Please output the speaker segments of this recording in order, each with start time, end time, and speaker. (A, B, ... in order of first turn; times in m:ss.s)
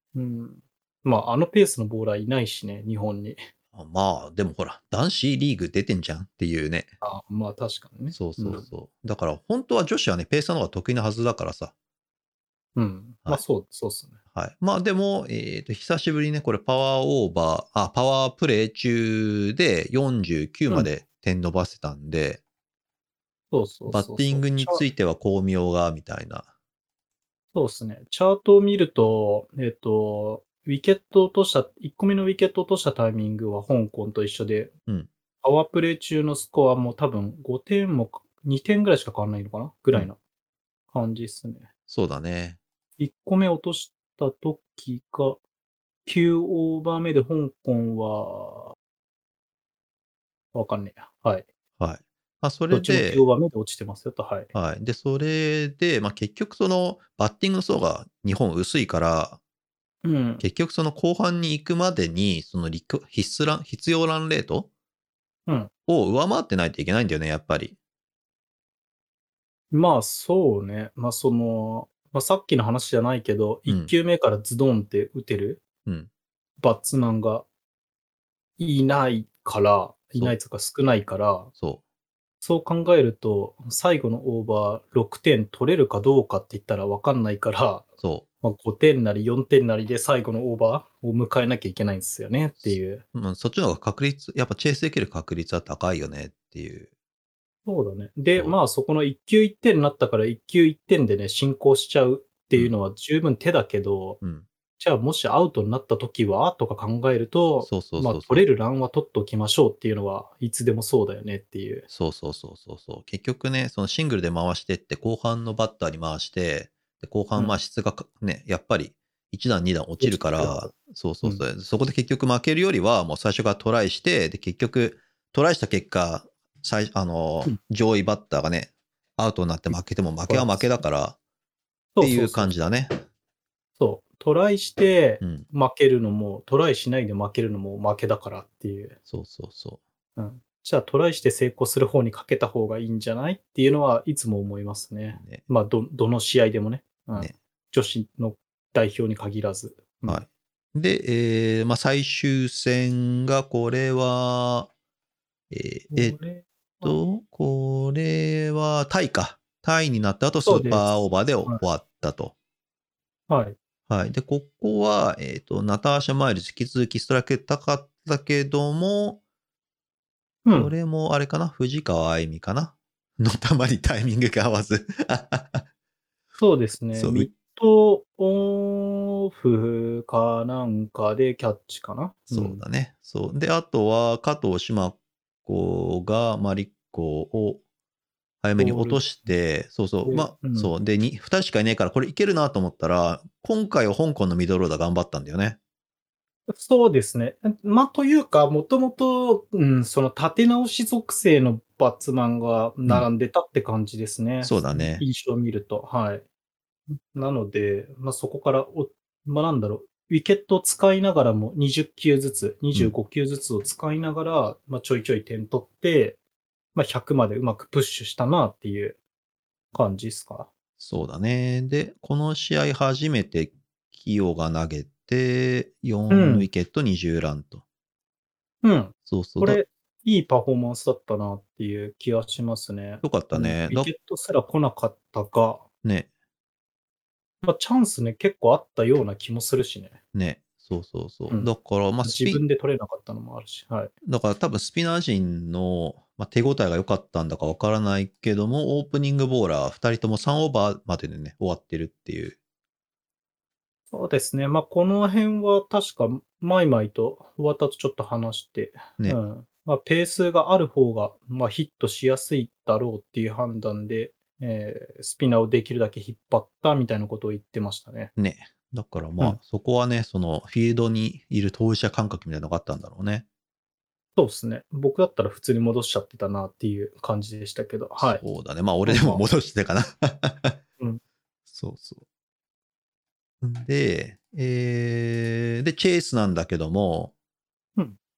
0:00.2-0:03.4 A
0:03.7-0:06.9 B
0:07.0-0:08.7 A
0:08.1-0:11.7 B
0:12.8-0:14.2 A
0:14.3-0:22.4 B
0:23.5-0:24.8 A
0:23.9-0:26.5 B
0:27.5-0:34.7 A
0:35.4-0:40.2 A
0:40.9-0:41.7 A
0:41.9-0:42.6 B
0:43.0-0:45.4 A
0:46.0-0:48.8 A
0:50.5-0:51.5 A
0:51.8-0:53.2 B
0:52.7-0:54.5 A
0:54.5-0:59.4 B
1:00.0-1:00.4 A
1:00.4-1:04.7 B
1:05.9-1:07.8 B
1:09.7-1:15.6 A
1:13.7-1:13.9 B
1:16.6-1:17.5 A
1:18.6-1:21.5 A
1:22.4-1:27.9 A
1:28.4-1:33.0 A
1:32.6-1:36.9 B
1:37.7-1:44.2 A
1:44.8-1:51.9 A
1:47.6-1:48.5 B
1:51.9-2:11.2 B
2:00.0-2:00.7 A
2:10.3-2:10.8 A
2:12.0-2:12.5 A
2:12.0-2:12.9 B
2:13.8-2:19.0 A
2:19.1-2:19.8 B
2:20.2-2:30.2 A
2:25.2-2:25.4 B
2:30.1-2:34.7 B
2:35.5-2:36.2 B
2:35.9-2:37.0 A
2:36.8-2:42.3 B
2:40.4-2:40.9 A
2:43.3-2:43.6 A
2:43.9-2:49.2 B
2:50.4-2:50.7 A
2:50.6-2:55.6 B
2:56.4-3:02.6 A
2:57.0-2:57.3 B
3:02.3-3:07.6 B
3:08.4-3:15.6 B
3:08.6-3:09.1 A
3:10.0-3:10.7 A
3:16.5-3:26.2 A
3:24.4-3:25.0 B
3:26.9-3:36.2 A
3:36.8-3:39.0 A
3:39.7-3:40.5 A
3:40.8-3:47.6 B
3:46.1-3:46.5 A
3:48.6-3:55.7 A
3:49.1-3:49.6 B
3:53.0-3:53.9 B
3:55.8-3:56.1 B
3:57.4-4:00.0 A
4:00.1-4:02.4 B
4:02.0-4:03.9 A
4:04.0-4:12.4 B
4:13.9-4:28.1 A
4:28.2-4:33.3 B
4:34.2-4:38.2 A
4:38.0-4:40.6 B
4:38.9-4:39.2 A
4:41.5-4:42.0 B
4:43.4-4:47.1 B